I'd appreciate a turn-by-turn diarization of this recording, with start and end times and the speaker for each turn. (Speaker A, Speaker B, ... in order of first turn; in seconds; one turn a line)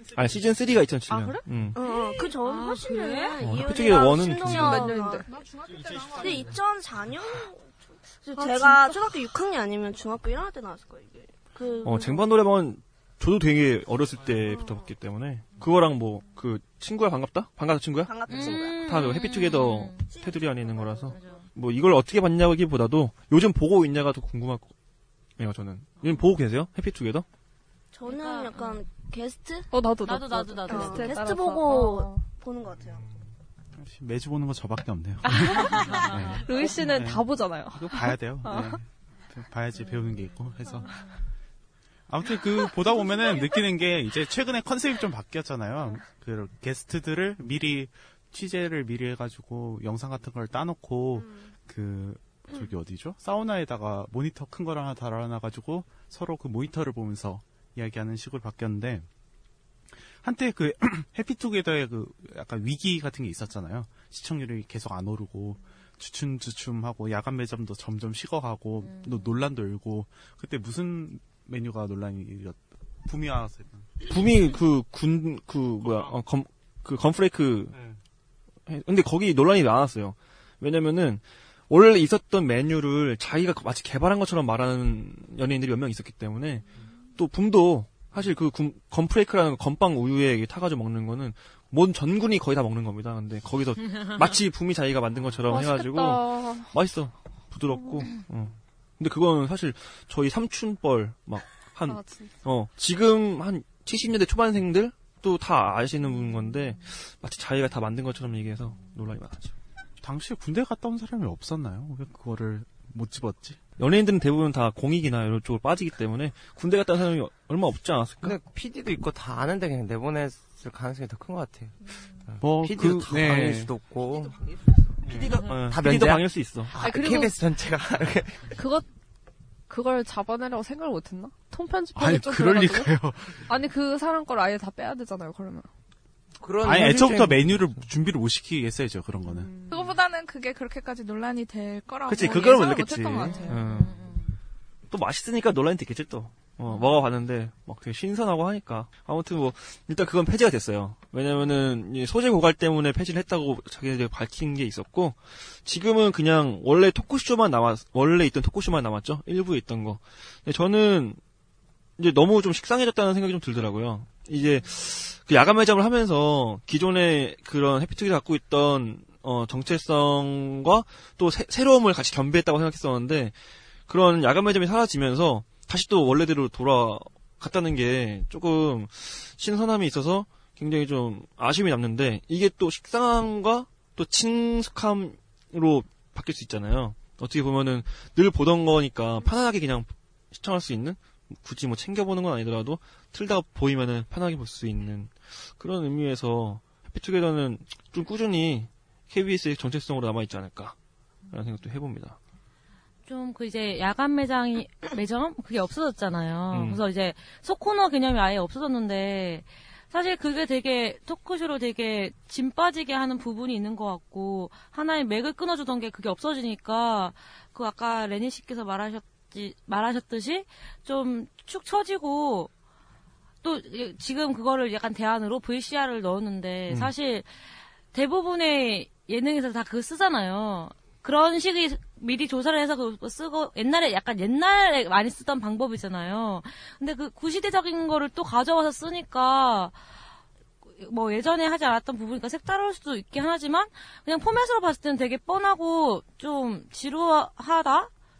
Speaker A: 0.1-1.8
Speaker B: 1.1-1.4
Speaker C: 1.7-5.3
Speaker D: 1.9-3.4
Speaker A: 3.4-4.9
Speaker B: 4.5-5.3
Speaker E: 5.2-6.5
Speaker C: 6.2-12.3
Speaker D: 8.4-8.9
Speaker B: 8.4-8.8
Speaker A: 11.8-24.7
Speaker C: 14.5-14.8
Speaker C: 18.1-19.0
Speaker D: 18.3-21.5
Speaker A: 25.4-27.2
Speaker C: 27.9-29.7
Speaker D: 28.1-28.8
Speaker B: 29.7-32.2
Speaker D: 30.0-31.2
Speaker C: 30.7-33.0
Speaker F: 33.7-41.0
Speaker B: 35.3-38.8
Speaker D: 35.4-36.8
Speaker D: 39.8-41.2
Speaker F: 42.1-59.1
Speaker F: 60.2-74.1
Speaker D: 68.8-69.4
Speaker A: 74.0-77.8
Speaker A: 78.7-86.6
Speaker A: 87.2-109.5
Speaker B: 95.5-96.7
Speaker B: 101.9-102.3
Speaker F: 110.0-113.6
Speaker A: 113.8-118.4
Speaker G: 118.2-121.8
Speaker G: 122.3-124.4
Speaker F: 122.4-123.7
Speaker A: 125.0-126.7
Speaker G: 125.5-128.5
Speaker B: 126.8-127.3
Speaker B: 128.5-128.8
Speaker B: 129.7-135.7
Speaker F: 131.9-133.4
Speaker G: 136.4-137.6
Speaker F: 136.6-139.5
Speaker B: 139.3-139.8
Speaker E: 139.7-143.9
Speaker A: 142.1-143.9
Speaker D: 143.2-144.3
Speaker A: 144.9-161.2
Speaker A: 162.0-173.3
Speaker D: 164.4-165.0
Speaker A: 173.9-200.8
Speaker A: 201.3-202.2
Speaker D: 203.1-222.5
Speaker A: 206.5-206.8
Speaker D: 223.4-227.3
Speaker D: 227.9-239.8
Speaker D: 240.8-247.9